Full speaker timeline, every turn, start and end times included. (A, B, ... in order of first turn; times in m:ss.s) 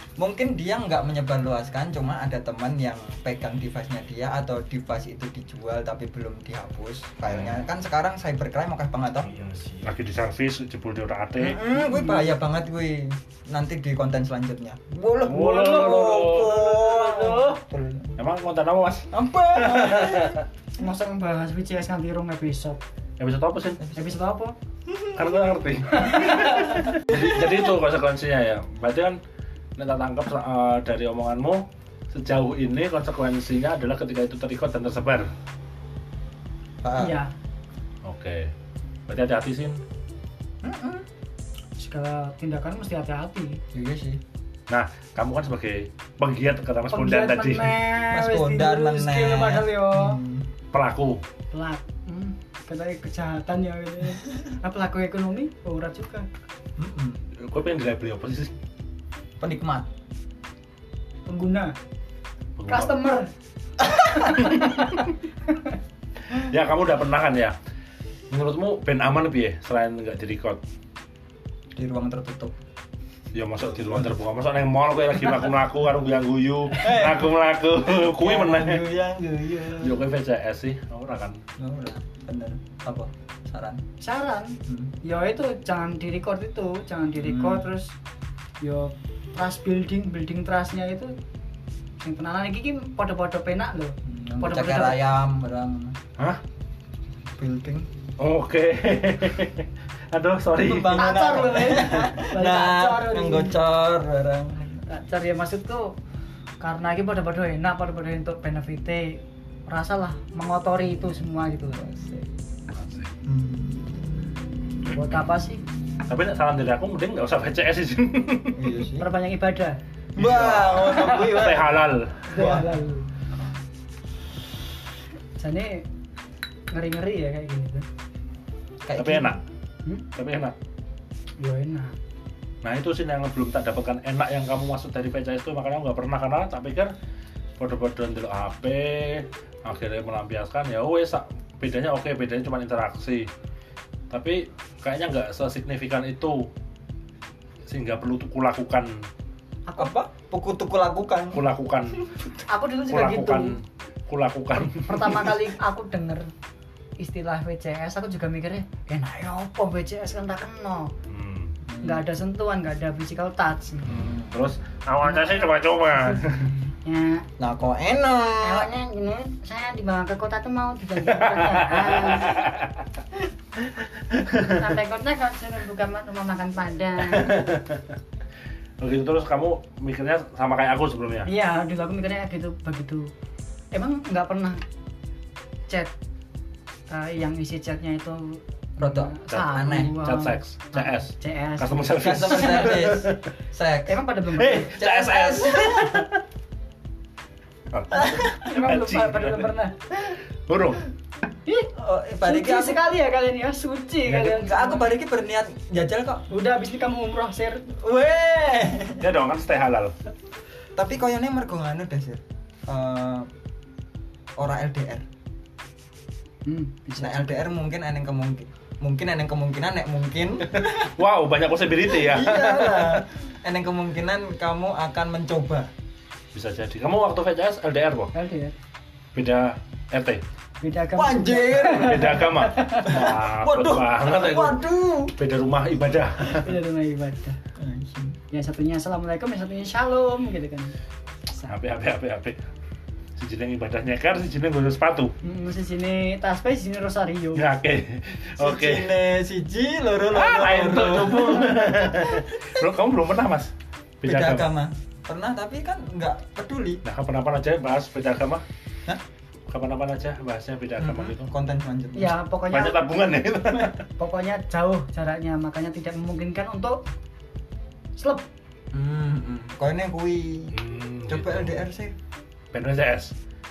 0:00.2-0:09.7 A
0:09.3-0:11.6 B
0:11.4-0:18.2 A
0:11.7-0:12.3 C
0:15.2-0:16.6 B
0:15.4-0:17.6 C
0:18.2-0:20.4 B
0:19.1-0:20.4 A
0:20.8-0:22.8 C
0:23.2-0:23.8 B
0:23.8-0:24.2 A
0:23.9-0:24.6 C
0:24.9-0:25.2 A
0:25.1-0:29.2 B
0:26.0-0:26.9 C
0:29.8-0:35.3 B
0:36.8-0:37.2 A
0:37.0-0:37.3 C
0:38.0-0:38.5 B
0:39.1-0:39.8 B
0:40.6-0:41.0 A
0:41.8-0:43.6 C
0:43.7-0:44.2 A
0:44.7-0:47.8 B
0:46.9-0:50.2 C
0:48.1-0:50.5 A
0:50.7-0:51.2 B
0:51.5-0:56.3 C
0:56.8-0:57.2 A
0:57.3-0:58.5 B
0:59.4-0:59.9 A
1:01.2-1:01.8 C
1:02.6-1:02.9 B
1:02.7-1:03.3 C
1:03.8-1:04.3 A
1:03.9-1:05.8 C
1:06.3-1:07.5 B
1:08.3-1:10.6 B
1:11.7-1:12.6 A
1:13.3-1:18.8 B
1:13.6-1:14.1 A
1:16.7-1:20.0 A
1:19.8-1:21.4 B
1:21.6-1:23.8 A
1:24.0-1:28.0 C
1:24.7-1:24.9 A
1:27.2-1:27.7 A
1:28.6-1:31.2 C
1:32.0-1:35.0 C
1:34.0-1:36.0 A
1:37.4-1:37.9 A
1:38.2-1:41.1 B
1:40.6-1:44.8 A
1:41.0-1:43.5 C
1:44.9-1:45.9 C
1:46.6-1:51.8 C
1:51.8-1:52.3 A
1:52.7-1:53.1 B
1:53.2-1:53.9 A
1:54.9-1:55.6 C
1:56.1-1:58.7 B
1:58.6-1:59.1 A
1:59.0-1:59.8 C
2:00.1-2:01.8 A
2:00.2-2:02.5 B
2:00.9-2:01.4 C
2:02.3-2:03.1 C
2:02.3-2:02.7 A
2:05.4-2:05.9 C
2:06.7-2:07.9 C
2:08.8-2:09.4 A
2:09.0-2:09.4 B
2:10.1-2:10.5 B
2:11.4-2:11.9 C
2:12.6-2:16.9 B
2:17.6-2:23.3 B
2:24.1-2:26.5 B
2:27.7-2:29.0 B
2:29.7-2:29.9 C
2:29.8-2:31.4 A
2:31.3-2:32.1 B
2:32.5-2:33.6 C
2:32.9-2:35.3 B
2:34.9-2:36.3 C
2:37.0-2:40.9 C
2:41.1-2:41.5 B
2:41.7-2:42.0 A
2:41.8-2:44.0 C
2:43.8-2:44.4 A
2:43.9-2:46.5 B
2:45.1-2:45.4 C
2:46.7-2:47.2 C
2:47.4-2:48.7 A
2:48.4-2:52.4 C
2:51.0-2:52.8 B
2:53.6-2:54.5 B
2:54.4-2:57.5 C
2:57.1-2:57.8 B
2:58.8-3:01.3 B
3:01.2-3:03.1 C
3:03.7-3:04.6 C
3:05.7-3:05.9 C
3:06.9-3:12.8 C
3:08.8-3:09.9 A
3:09.3-3:13.2 B
3:12.0-3:14.0 A
3:13.8-3:14.8 C
3:14.4-3:16.2 B
3:14.7-3:16.1 A
3:17.7-3:19.5 B
3:17.9-3:18.2 A
3:18.2-3:19.8 C
3:20.0-3:20.9 B
3:21.4-3:21.7 C
3:21.7-3:22.8 A
3:22.2-3:24.9 C
3:24.1-3:24.3 B
3:24.1-3:26.2 A
3:26.3-3:27.7 C
3:27.7-3:29.0 A
3:29.0-3:29.9 B
3:30.7-3:33.3 A
3:34.4-3:35.0 A
3:36.4-3:37.4 C
3:37.0-3:40.9 A
3:40.5-3:43.0 B
3:41.8-3:45.7 A
3:46.3-3:48.1 B
3:48.1-3:48.5 C
3:49.1-3:50.2 B
3:50.6-3:53.1 C
3:50.9-3:52.3 A
3:51.6-3:54.6 B
3:52.8-3:55.1 A
3:55.1-3:56.5 B
3:56.2-3:57.4 C
3:57.6-3:58.2 A
3:58.3-4:00.7 C
4:01.5-4:02.4 B
4:03.2-4:05.1 B
4:05.2-4:07.5 C
4:07.3-4:08.9 B
4:08.4-4:12.3 A
4:10.1-4:14.5 B
4:14.0-4:16.8 A
4:16.8-4:18.4 B
4:19.5-4:21.3 B
4:20.8-4:22.2 A
4:21.9-4:22.8 C
4:22.5-4:23.8 B
4:24.0-4:26.8 C
4:28.0-4:28.3 C
4:28.7-4:32.0 A
4:30.5-4:31.6 B
4:32.5-4:33.1 B